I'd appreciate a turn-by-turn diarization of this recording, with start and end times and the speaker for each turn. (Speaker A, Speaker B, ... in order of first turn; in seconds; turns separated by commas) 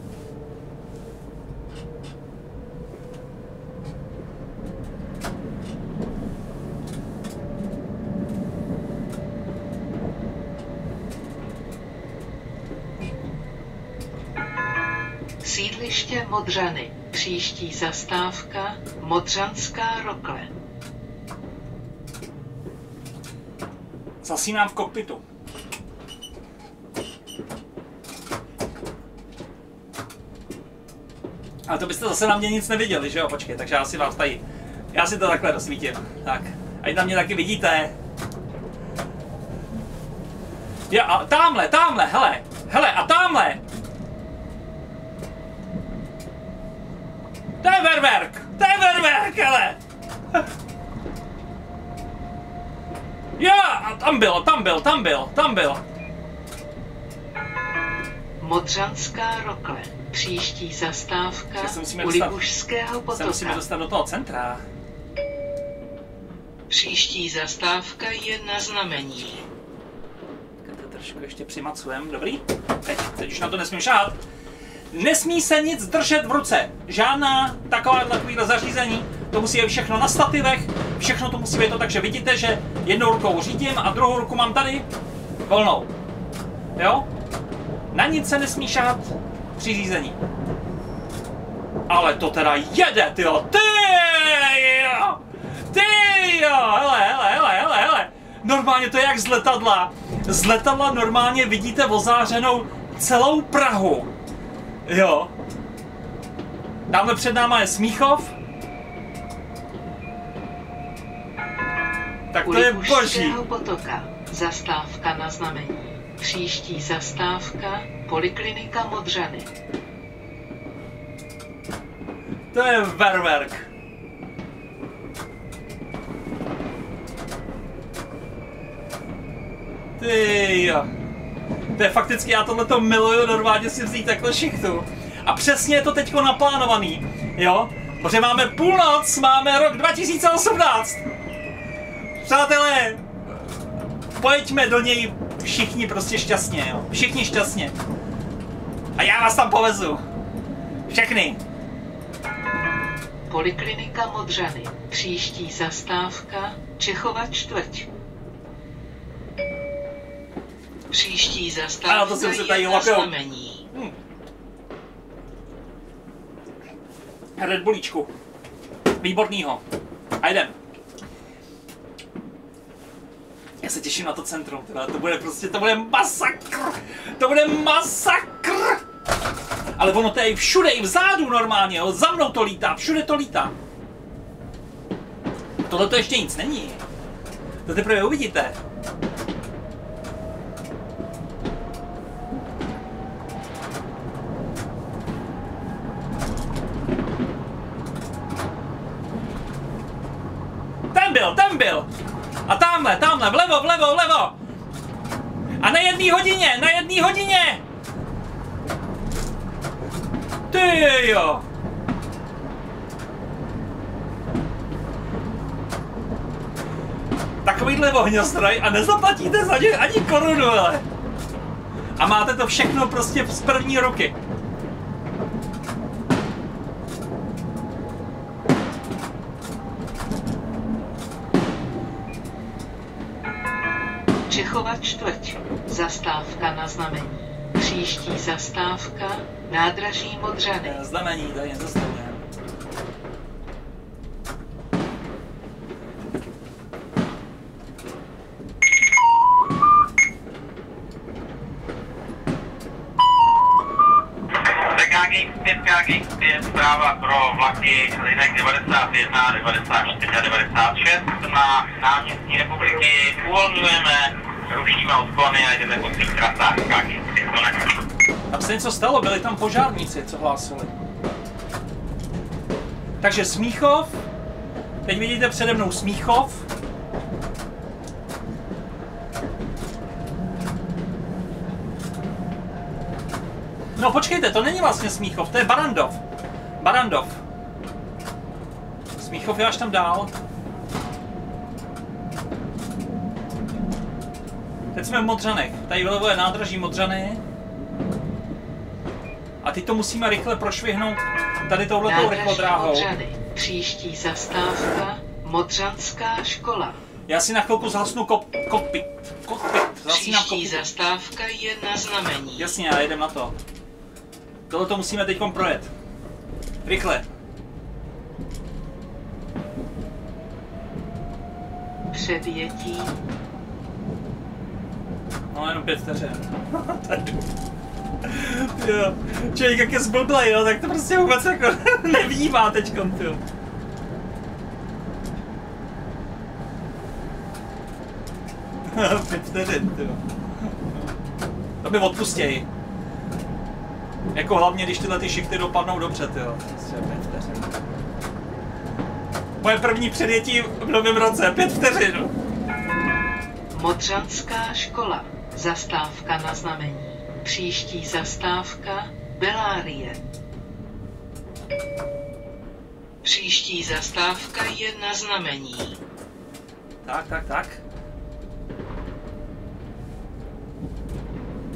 Speaker A: 15.4-20.5, Speaker B: 24.2-25.2, Speaker B: 31.7-34.4, Speaker B: 34.9-37.9, Speaker B: 40.9-43.6, Speaker B: 47.6-49.8, Speaker B: 53.4-55.8, Speaker A: 58.4-63.6, Speaker B: 61.6-62.4, Speaker B: 63.1-64.6, Speaker A: 66.7-69.4, Speaker B: 70.6-74.2, Speaker B: 74.9-84.9, Speaker B: 85.5-85.9, Speaker B: 86.8-87.1, Speaker B: 87.9-90.2, Speaker B: 91.9-104.1, Speaker B: 104.8-105.3, Speaker B: 106.9-108.3, Speaker B: 112.3-113.4, Speaker A: 112.4-119.5, Speaker B: 122.5-123.7, Speaker B: 130.0-130.9, Speaker B: 131.7-141.0, Speaker B: 142.2-143.1, Speaker B: 144.2-147.7, Speaker B: 149.0-150.0, Speaker B: 150.9-151.4, Speaker A: 153.3-157.9, Speaker A: 160.9-163.7, Speaker B: 161.8-163.1, Speaker B: 167.4-168.1, Speaker B: 169.0-169.6, Speaker B: 170.2-170.6, Speaker B: 173.6-178.8, Speaker B: 179.8-183.5, Speaker B: 185.7-186.8, Speaker B: 187.6-188.6, Speaker B: 200.9-201.9, Speaker B: 202.4-204.3, Speaker B: 205.6-207.6, Speaker B: 210.5-211.4, Speaker B: 217.4-220.8, Speaker B: 222.0-224.1, Speaker A: 234.3-240.8, Speaker B: 240.6-242.2, Speaker C: 254.4-267.8, Speaker B: 268.3-270.8, Speaker B: 273.0-274.0, Speaker B: 274.8-276.5, Speaker B: 283.8-286.0, Speaker B: 286.6-287.2, Speaker B: 289.0-290.1, Speaker B: 294.7-297.2, Speaker B: 299.4-302.9, Speaker A: 301.8-306.8, Speaker B: 307.1-310.6, Speaker A: 309.9-312.6, Speaker B: 312.4-313.4, Speaker B: 314.5-315.7, Speaker B: 316.6-317.1, Speaker A: 321.9-323.0, Speaker B: 325.3-327.3, Speaker B: 328.0-333.2, Speaker B: 338.6-340.6, Speaker B: 341.6-342.5, Speaker B: 344.1-347.5, Speaker B: 349.4-352.1, Speaker A: 353.5-360.0, Speaker A: 363.0-365.8, Speaker B: 366.8-367.6